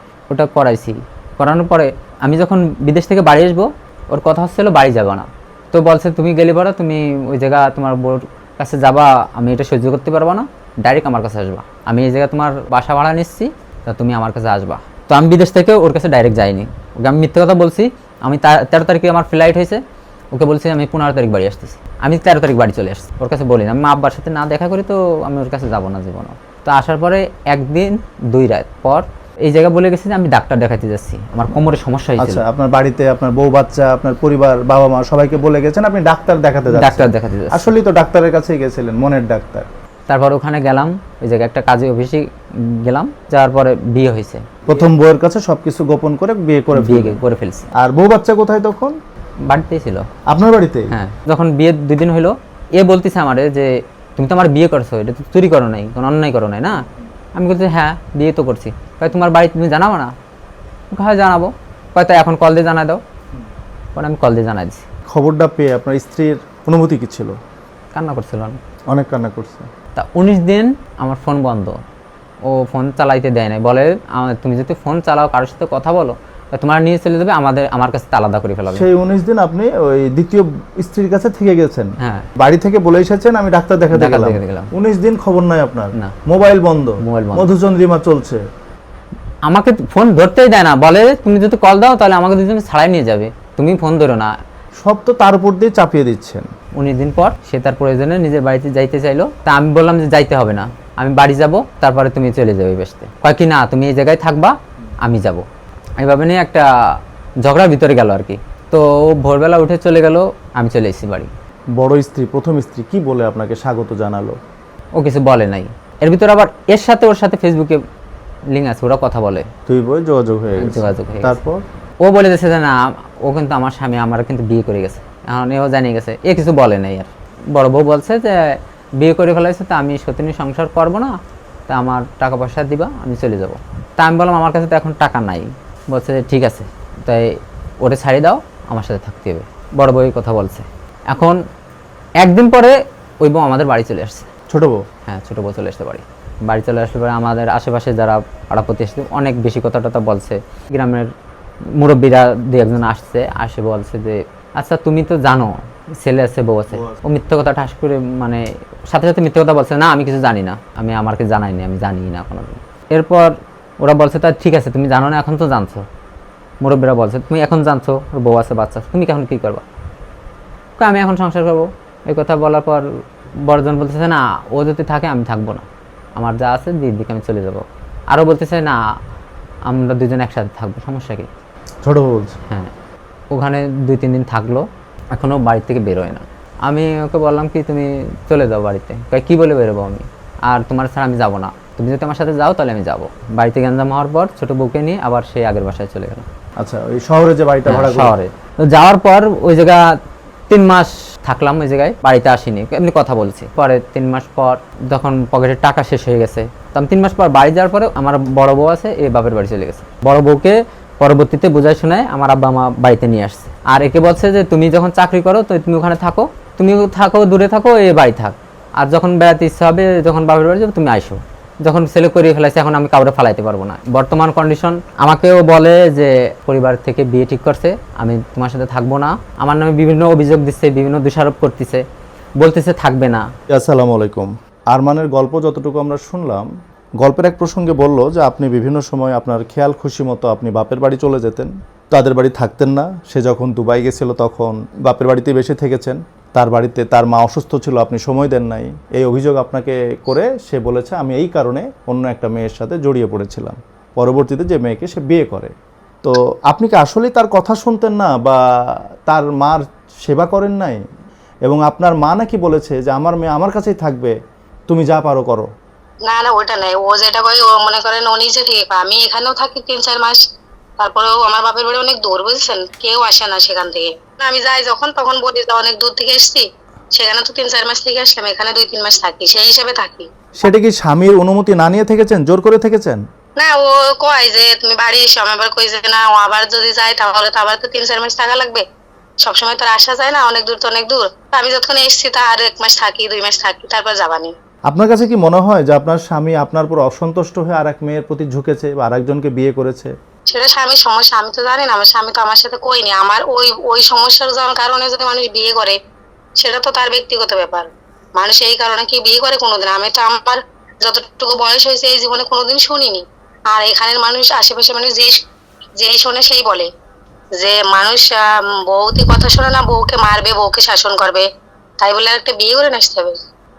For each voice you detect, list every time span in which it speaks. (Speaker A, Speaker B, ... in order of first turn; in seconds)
Speaker A: 0.3-19.8, 20.3-32.5, 36.7-37.7, 40.1-44.9, 46.8-47.7, 49.5-50.1, 50.9-56.9, 57.4-60.1, 60.9-63.0, 64.0-64.8, 68.0-68.6, 70.0-71.8, 72.5-78.9, 82.0-82.3, 83.9-84.7, 87.0-87.5, 89.5-94.3, 96.8-105.5, 106.0-106.7, 107.4-111.3, 115.0-117.8, 118.5-119.5, 120.6-121.4, 122.0-131.1, 131.7-137.3, 137.8-141.4, 142.2-144.3, 145.1-151.1, 151.8-165.9, 166.6-169.6, 170.8-172.9, 173.4-175.7, 176.2-178.8, 179.7-181.3, 183.3-196.3, 197.7-199.8, 200.5-231.8, 232.4-233.3
Speaker B: 32.2-39.7, 44.7-47.2, 47.8-49.0, 50.3-51.0, 65.1-67.3, 68.9-69.7, 78.7-88.4, 94.8-96.5, 111.8-114.4, 119.7-121.6, 144.5-144.8, 156.7-157.0, 181.8-182.4, 196.6-198.2, 233.5-236.4, 237.0-260.8, 261.5-264.1, 264.7-265.5, 280.4-283.0, 294.7-299.9
Speaker C: 266.1-270.2, 270.8-280.1, 283.4-288.6, 289.2-294.3, 300.3-305.8, 306.4-315.2, 315.8-316.7, 317.4-321.3, 321.8-323.2